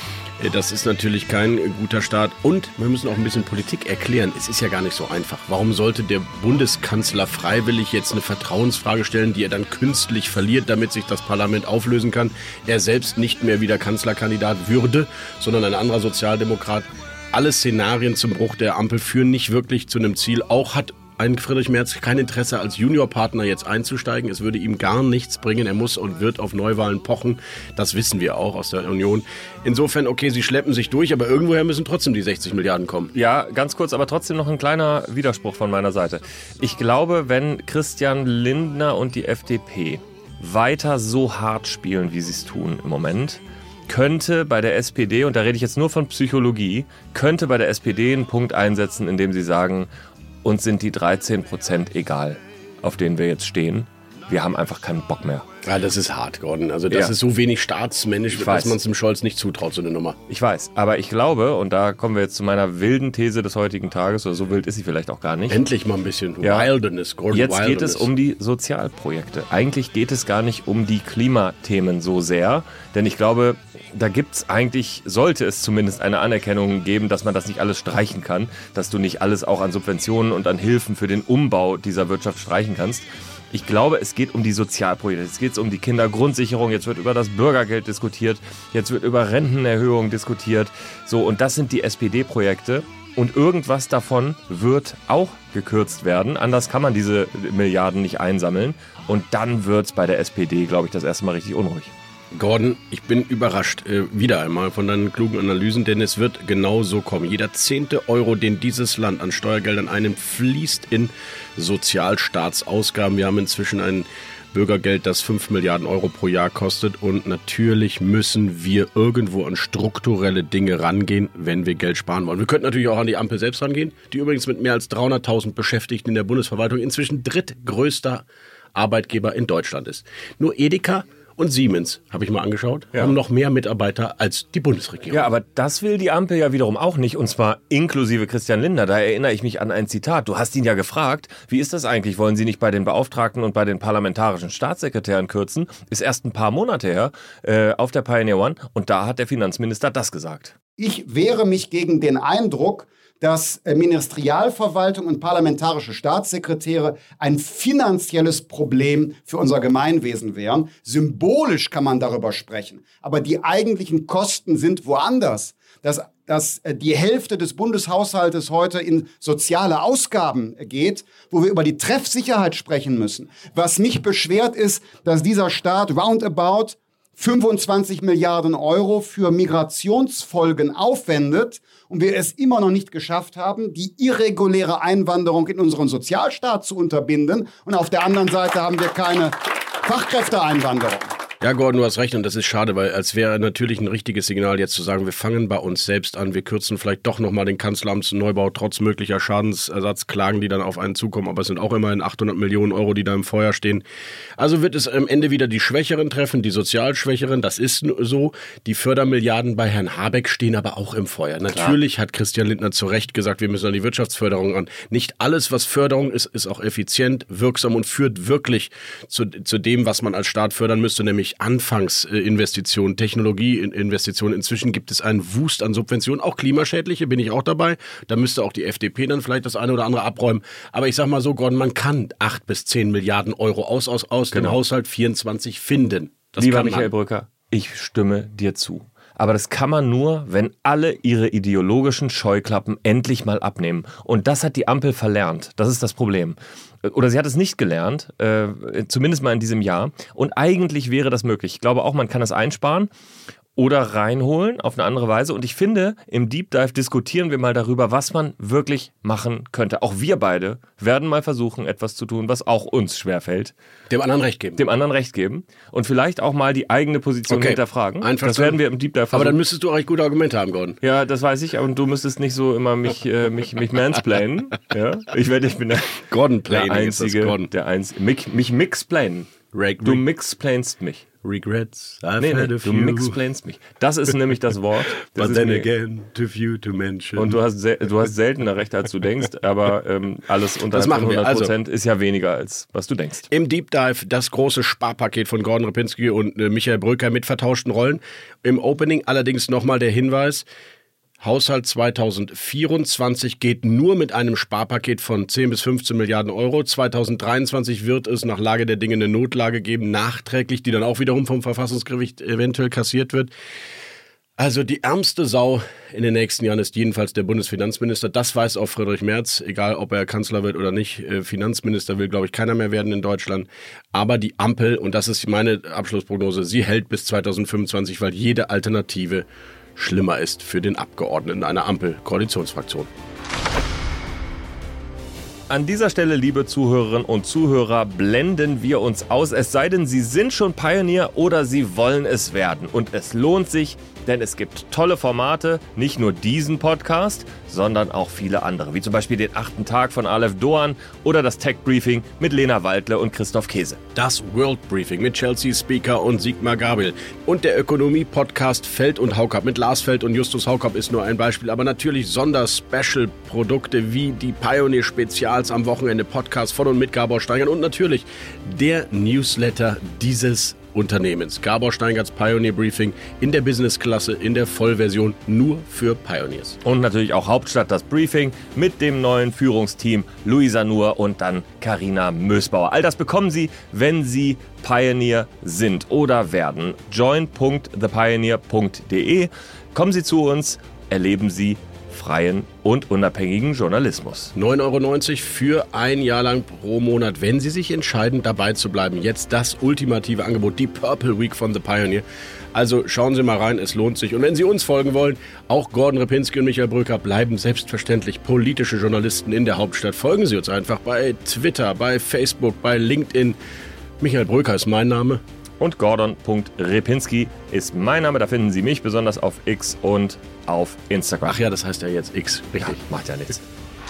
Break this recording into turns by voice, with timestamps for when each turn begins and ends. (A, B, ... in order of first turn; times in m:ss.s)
0:00.4-0:33.1 A
0:33.1-0:49.9 B
0:50.4-0:55.5 B
0:55.6-1:00.2 A
0:58.3-0:58.8 B
1:00.3-1:05.6 B
1:05.5-1:08.1 A
1:06.4-1:06.7 B
1:07.3-1:41.9 B
1:42.3-2:08.2 A
2:08.7-2:15.3 A
2:15.1-2:30.5 B
2:30.8-3:11.1 C
3:11.4-3:23.8 A
3:24.4-3:56.9 A
3:54.3-3:54.6 B
3:56.4-4:12.9 B
4:13.6-4:23.5 B
4:23.9-4:24.6 A
4:24.6-4:29.4 B
4:27.3-4:28.6 A
4:29.1-4:30.8 A
4:30.8-4:39.3 B
4:36.1-4:37.5 A
4:39.5-4:40.0 A
4:39.8-4:41.0 B
4:41.2-4:43.2 A
4:42.2-4:45.7 B
4:45.1-4:47.3 A
4:47.2-4:53.3 B
4:50.7-4:51.5 A
4:53.3-5:00.4 A
5:01.2-5:13.3 A
5:14.4-5:29.2 A
5:29.8-5:32.9 A
5:35.5-5:53.8 B
5:53.9-6:16.6 A
6:16.6-6:34.3 B
6:34.3-6:53.4 A
6:54.0-6:55.2 A
6:55.6-7:01.4 B
7:01.2-7:02.8 A
7:02.6-7:03.4 B